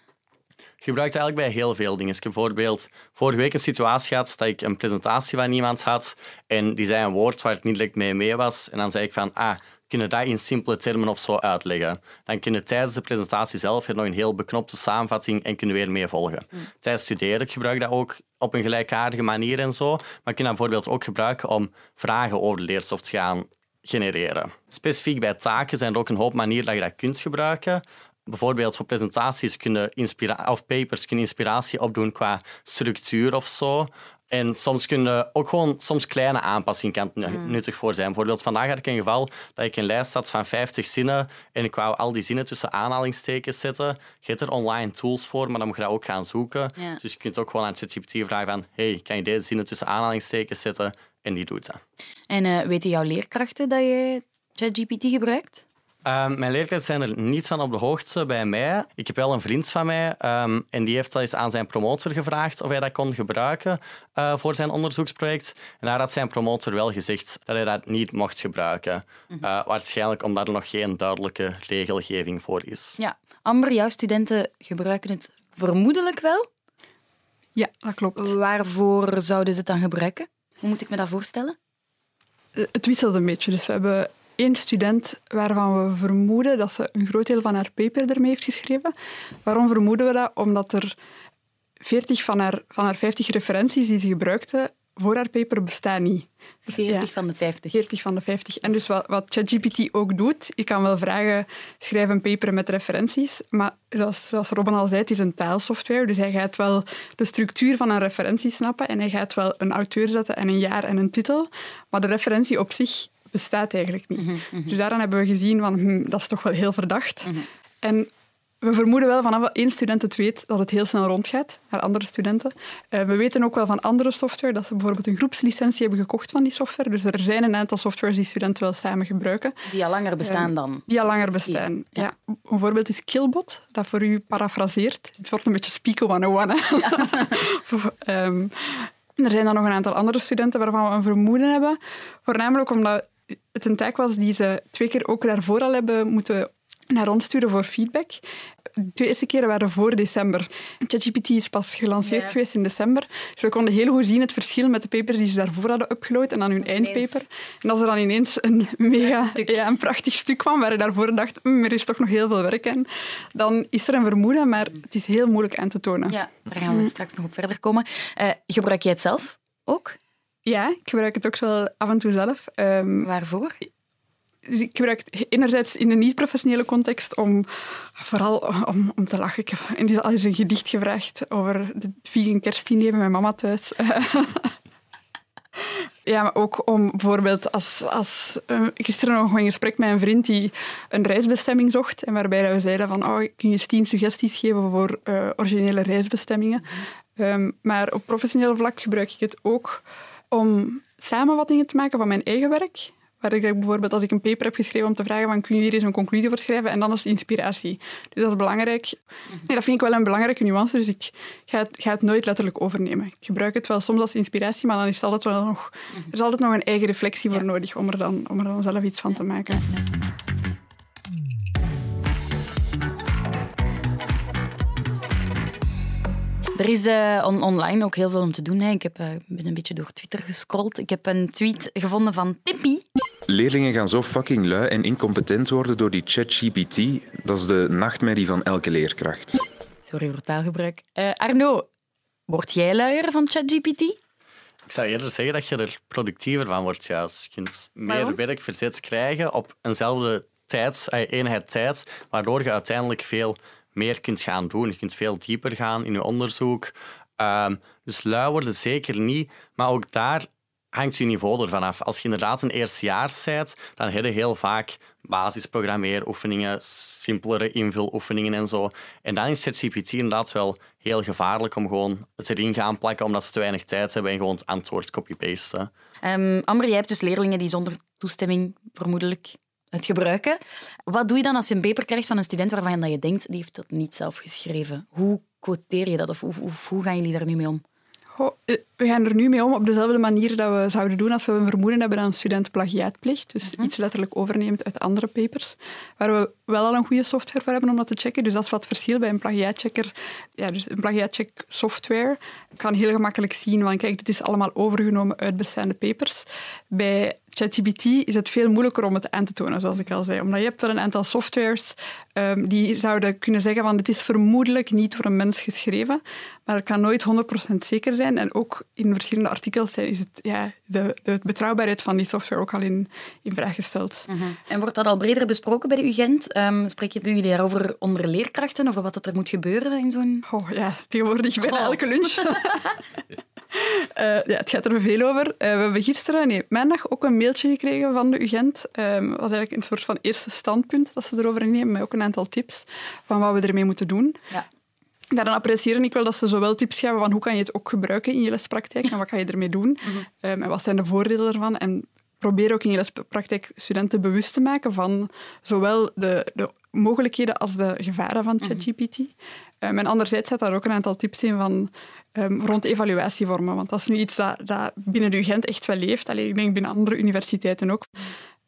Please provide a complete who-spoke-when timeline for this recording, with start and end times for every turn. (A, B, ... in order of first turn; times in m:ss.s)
0:00.8-0:51.8 A
0:37.3-0:37.6 B
0:52.3-0:55.6 B
0:56.0-1:13.0 A
1:13.0-1:16.5 B
1:17.5-1:18.3 C
1:18.2-1:21.6 B
1:22.5-1:28.9 C
1:29.4-1:31.0 C
1:31.8-1:37.1 C
1:36.7-1:37.8 B
1:37.7-1:58.1 C
1:54.2-1:54.8 B
1:58.6-2:09.6 C
2:09.6-2:10.9 B
2:10.2-2:28.2 C
2:11.4-2:12.1 B
2:28.8-2:46.2 C
2:32.0-2:32.3 B
2:36.6-2:37.2 B
2:39.0-2:39.6 B
2:46.1-2:50.0 B
2:50.4-2:53.1 C
2:53.0-2:53.6 B
2:54.4-3:04.5 C
3:05.6-3:39.6 C
3:39.1-3:39.8 B
3:46.6-3:52.8 B
3:53.3-3:59.4 D
3:59.8-4:01.7 B
4:02.3-4:04.0 B
4:04.6-4:35.7 A
4:07.9-4:08.2 B
4:36.0-4:47.6 B
4:48.1-5:24.1 C
5:24.1-5:30.2 B
5:30.3-5:32.7 C
5:31.4-5:32.6 B
5:33.5-5:44.2 C
5:45.1-6:08.1 C